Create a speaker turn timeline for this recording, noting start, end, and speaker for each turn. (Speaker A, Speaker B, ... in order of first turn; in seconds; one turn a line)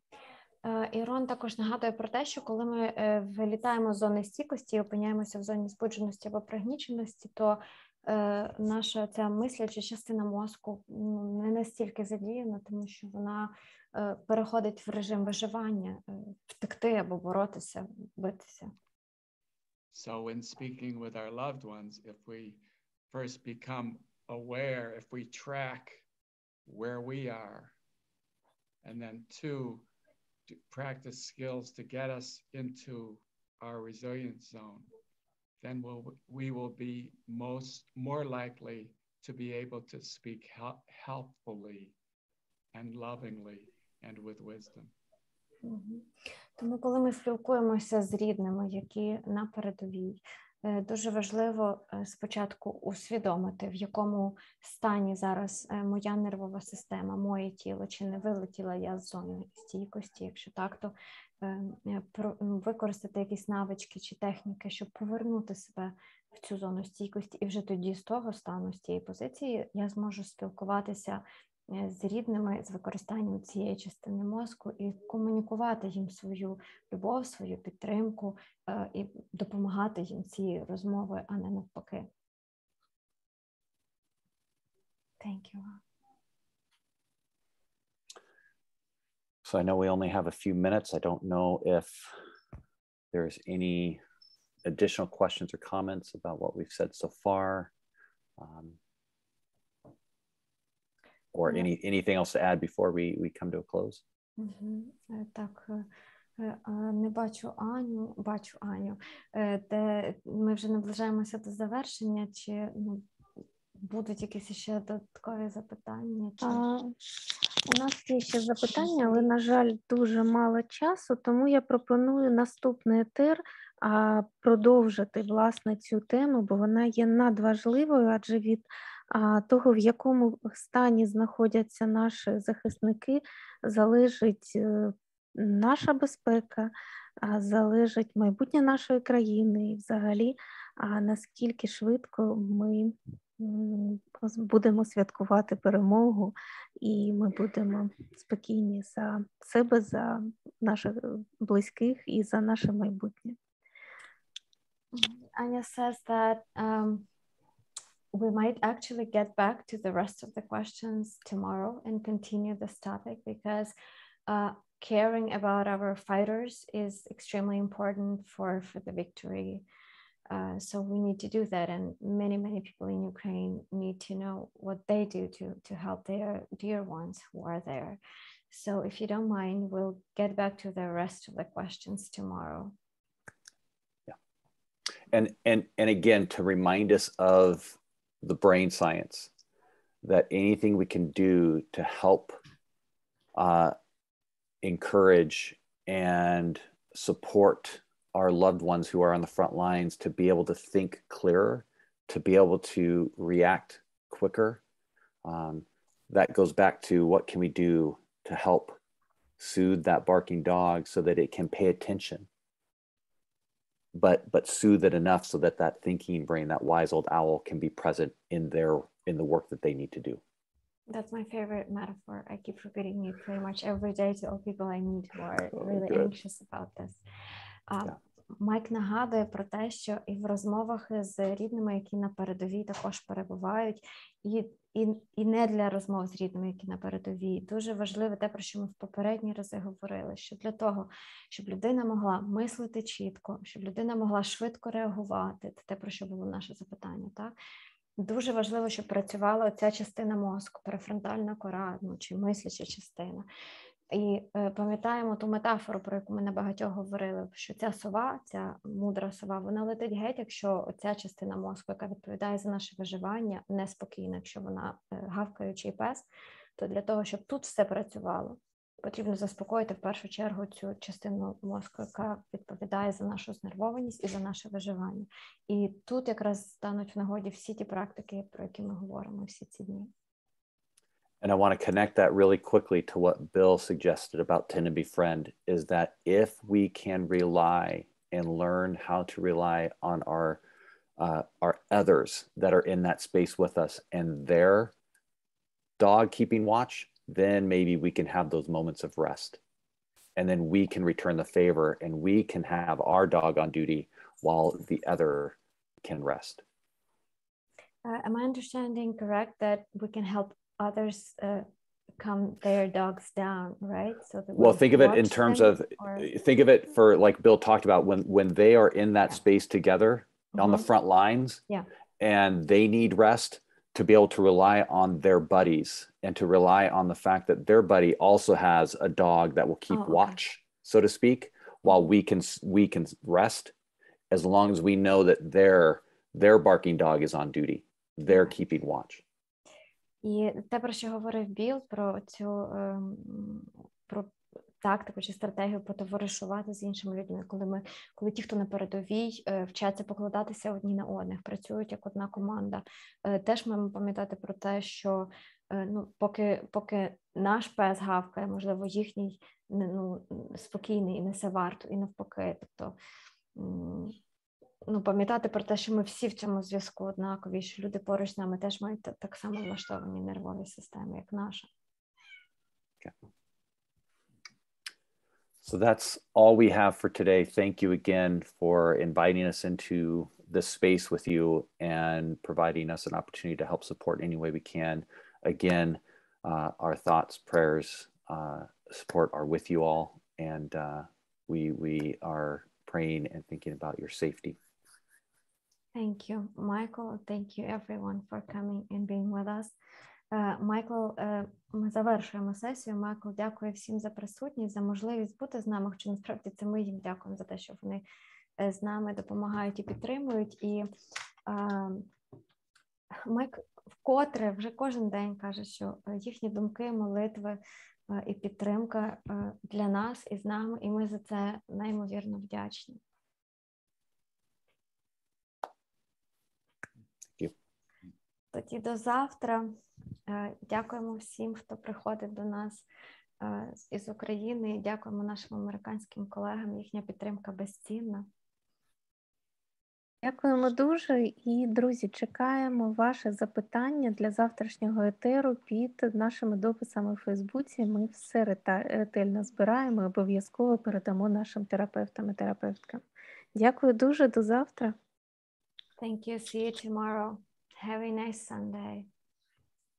Speaker A: 0.6-18.7
Speaker B: 19.9-26.0
Speaker B: 26.7-27.7
Speaker B: 28.8-29.9
Speaker B: 30.5-34.9
Speaker B: 35.6-42.0
Speaker B: 42.7-44.9
Speaker A: 45.6-82.1
Speaker A: 85.2-85.8
Speaker C: 89.4-92.1
Speaker C: 93.1-94.0
Speaker C: 94.6-97.7
Speaker C: 98.4-98.8
Speaker C: 101.3-104.0
Speaker A: 104.4-105.9
Speaker A: 106.4-113.1
Speaker A: 113.8-116.6
Speaker D: 116.4-117.0
Speaker D: 117.6-136.7
Speaker D: 137.2-153.4
Speaker A: 154.9-157.1
Speaker A: 158.1-163.7
Speaker A: 164.3-169.6
Speaker A: 170.3-178.0
Speaker A: 178.5-182.8
Speaker C: 185.1-189.3
Speaker C: 190.0-192.4
Speaker C: 193.3-193.8
Speaker C: 194.6-204.6
Speaker C: 205.2-208.8
Speaker C: 209.4-212.3
Speaker C: 213.9-220.2
Speaker A: 220.9-227.0
Speaker C: 225.7-226.1
Speaker A: 227.7-247.3
Speaker A: 248.0-253.3
Speaker A: 253.9-279.9
Speaker C: 281.2-290.4
Speaker C: 291.0-294.7
Speaker C: 295.8-299.4
Speaker C: 300.2-306.4
Speaker A: 307.8-311.4
Speaker A: 312.0-316.1
Speaker C: 314.4-321.4
Speaker A: 320.4-320.7
Speaker C: 322.0-333.5
Speaker A: 329.7-330.2
Speaker C: 334.1-339.0
Speaker A: 338.1-338.3
Speaker A: 340.0-362.8
Speaker A: 363.4-364.0
Speaker A: 364.7-371.5
Speaker C: 375.4-394.4
Speaker A: 395.7-399.6
Speaker A: 400.1-407.9
Speaker A: 408.4-410.7
Speaker A: 411.3-411.9
Speaker A: 413.1-422.8
Speaker A: 428.3-429.5
Speaker A: 430.1-432.7
Speaker A: 433.2-438.1
Speaker D: 440.0-452.8
Speaker D: 453.4-454.8
Speaker A: 455.8-458.9